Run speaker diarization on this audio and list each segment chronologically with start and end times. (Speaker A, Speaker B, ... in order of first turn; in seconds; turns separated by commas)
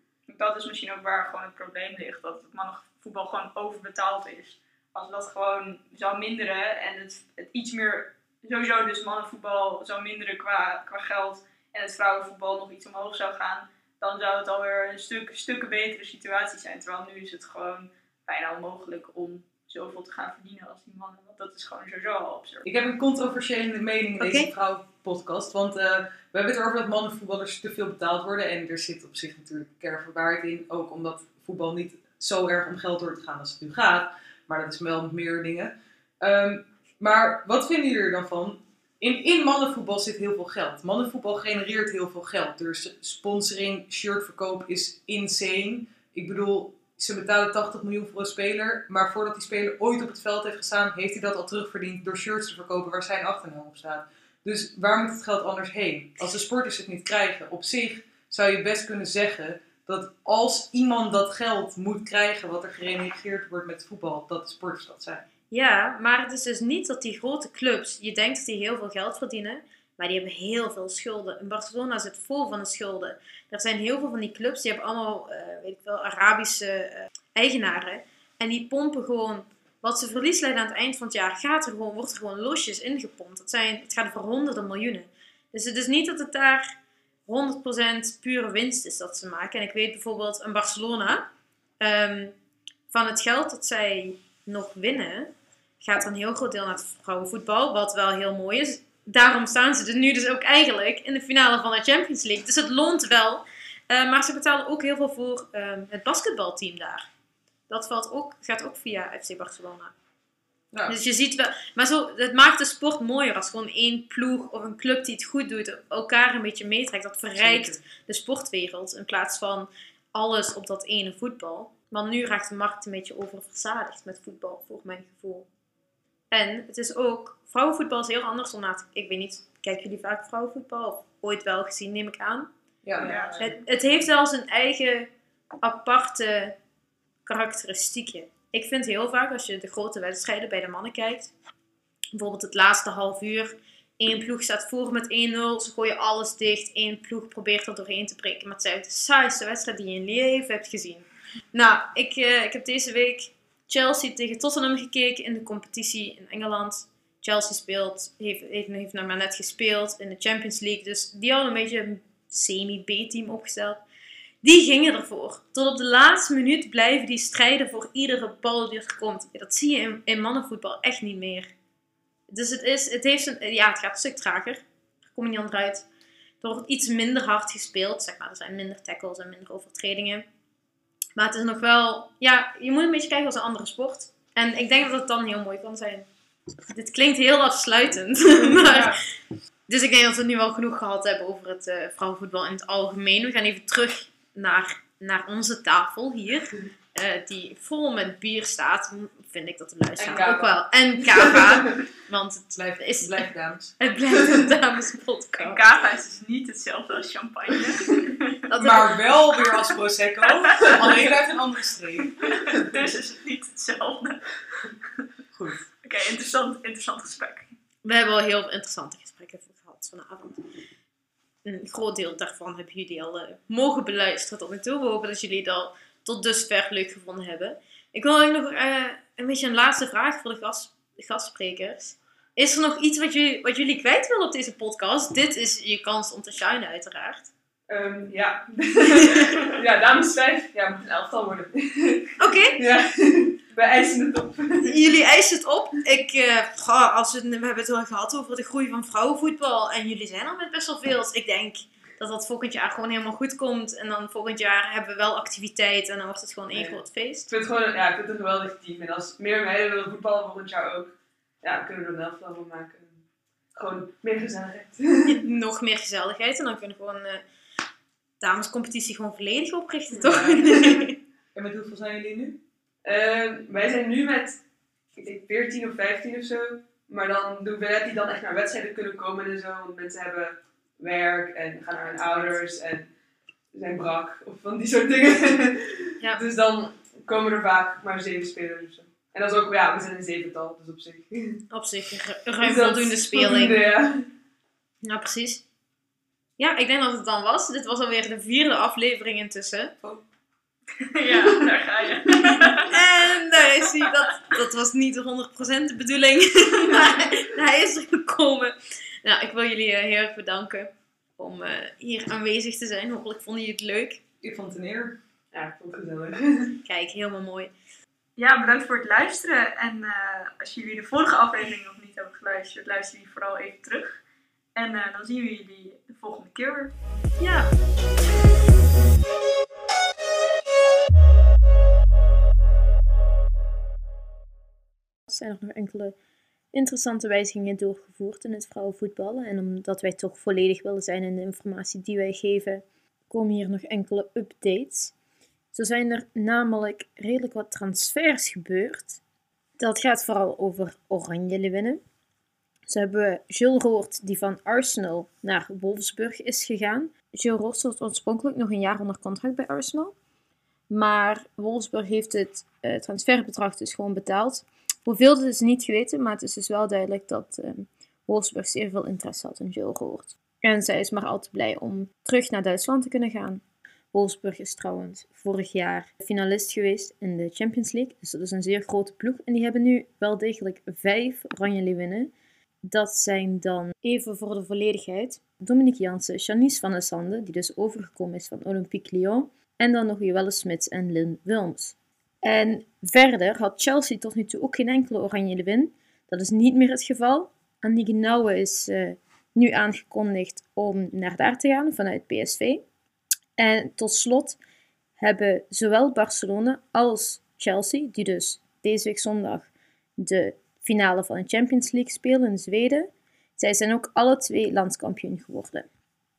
Speaker A: 0.3-22.6, Speaker B: 22.6-65.2, Speaker C: 24.2-24.5, Speaker C: 65.5-86.7, Speaker C: 87.3-92.4, Speaker C: 92.9-107.1, Speaker C: 107.7-109.9, Speaker B: 110.7-111.0, Speaker C: 110.9-125.5, Speaker B: 117.4-117.8, Speaker C: 126.3-132.5, Speaker B: 132.8-133.3, Speaker D: 133.0-133.5, Speaker A: 133.0-133.4, Speaker C: 133.4-135.1, Speaker C: 135.6-136.6, Speaker C: 137.3-141.3, Speaker C: 142.1-163.8, Speaker C: 164.4-171.5, Speaker C: 172.3-175.9, Speaker C: 176.4-180.3, Speaker C: 181.2-186.1, Speaker C: 186.7-189.0, Speaker C: 189.7-203.2, Speaker D: 200.0-201.8, Speaker B: 202.6-203.7, Speaker C: 203.8-205.6, Speaker A: 205.4-208.4, Speaker C: 208.5-209.0, Speaker B: 208.6-212.1, Speaker A: 210.2-211.0, Speaker A: 212.2-214.3, Speaker B: 215.3-215.7, Speaker A: 215.8-217.5, Speaker C: 217.8-220.4, Speaker C: 221.4-237.3, Speaker D: 237.7-244.8, Speaker C: 242.2-242.6, Speaker C: 244.6-257.3, Speaker D: 256.5-263.0, Speaker D: 263.6-265.2, Speaker C: 265.1-267.2, Speaker C: 268.2-271.0, Speaker D: 269.9-270.9, Speaker B: 271.3-272.4, Speaker D: 272.8-274.4, Speaker D: 275.0-282.9, Speaker C: 281.9-282.4, Speaker D: 283.5-291.4, Speaker C: 291.5-293.6, Speaker D: 292.4-294.1, Speaker C: 294.8-295.4, Speaker C: 296.4-299.8, Speaker A: 300.8-302.7, Speaker D: 301.2-301.5, Speaker D: 302.1-302.6, Speaker C: 302.7-314.0, Speaker B: 314.2-315.0, Speaker D: 315.3-316.6, Speaker C: 316.6-317.5, Speaker A: 318.2-324.0, Speaker A: 324.6-326.7, Speaker C: 327.2-327.5, Speaker C: 335.1-335.9, Speaker C: 336.5-344.9, Speaker C: 345.5-349.0, Speaker C: 349.6-351.8, Speaker C: 352.7-359.9, Speaker C: 360.7-373.4, Speaker C: 373.9-382.1, Speaker C: 382.6-402.6, Speaker C: 403.4-404.4, Speaker C: 405.0-415.7